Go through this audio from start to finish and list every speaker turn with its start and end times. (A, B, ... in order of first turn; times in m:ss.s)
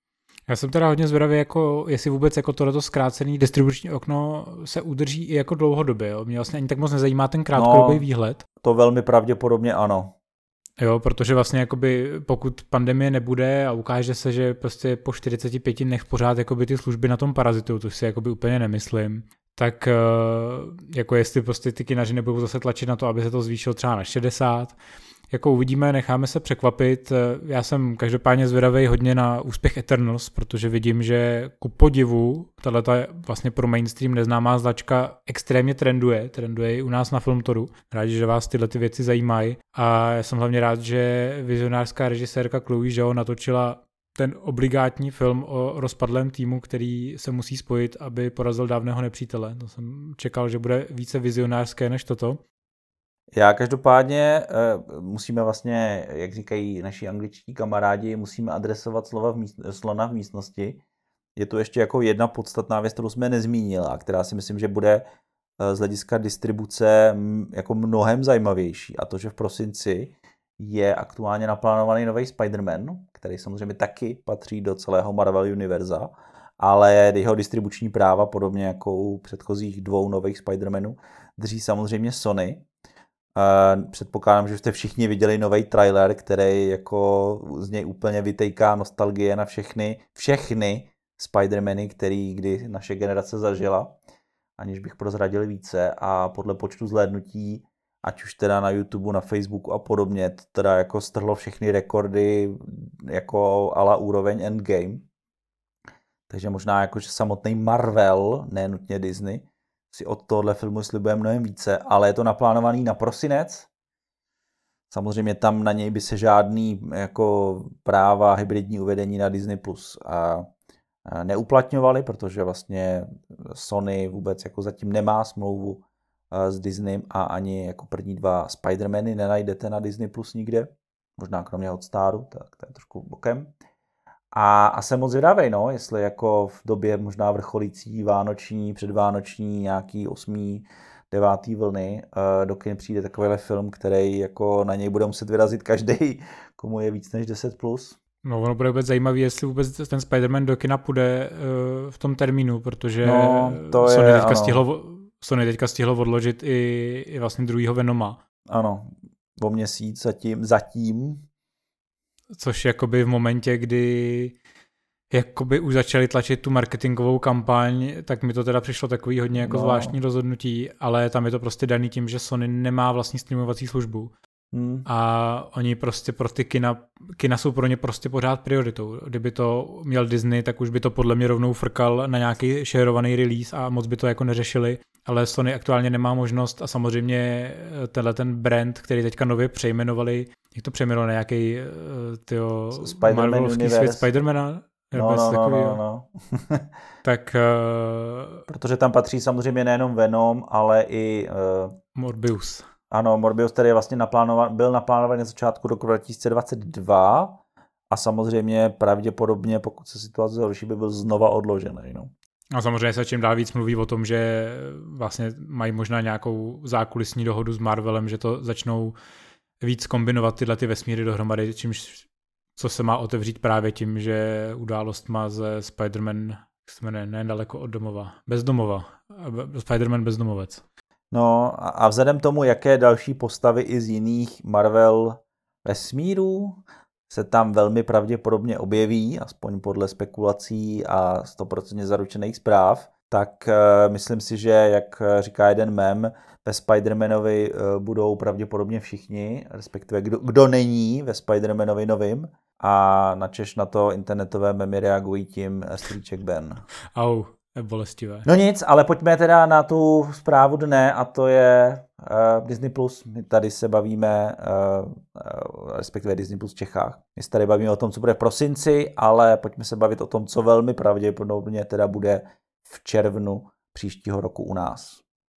0:00.5-0:08.4 A
0:07.5-0:08.0 B
0:08.6-0:10.1 B
0:10.8-0:24.8 A
0:25.3-0:52.4 A
0:53.3-1:00.8 B
1:01.4-1:05.0 B
1:05.6-1:22.6 B
1:23.3-1:33.9 B
1:34.6-1:45.0 B
1:46.3-1:53.7 B
1:54.9-2:00.4 B
2:01.1-2:13.5 B
2:14.3-2:28.0 B
2:28.2-2:38.2 A
2:33.0-2:34.6 B
2:38.5-2:41.2 B
2:42.4-2:44.4 A
2:45.1-2:54.1 A
2:49.4-2:49.9 B
2:54.5-2:54.9 B
2:54.8-3:15.8 A
3:12.8-3:14.1 B
3:14.9-3:16.7 B
3:17.0-3:18.4 A
3:18.5-3:21.8 B
3:21.9-3:22.7 A
3:22.9-3:32.1 B
3:32.5-3:39.0 A
3:39.6-3:50.6 A
3:51.1-4:16.6 B
4:16.9-4:18.3 A
4:18.2-4:35.0 B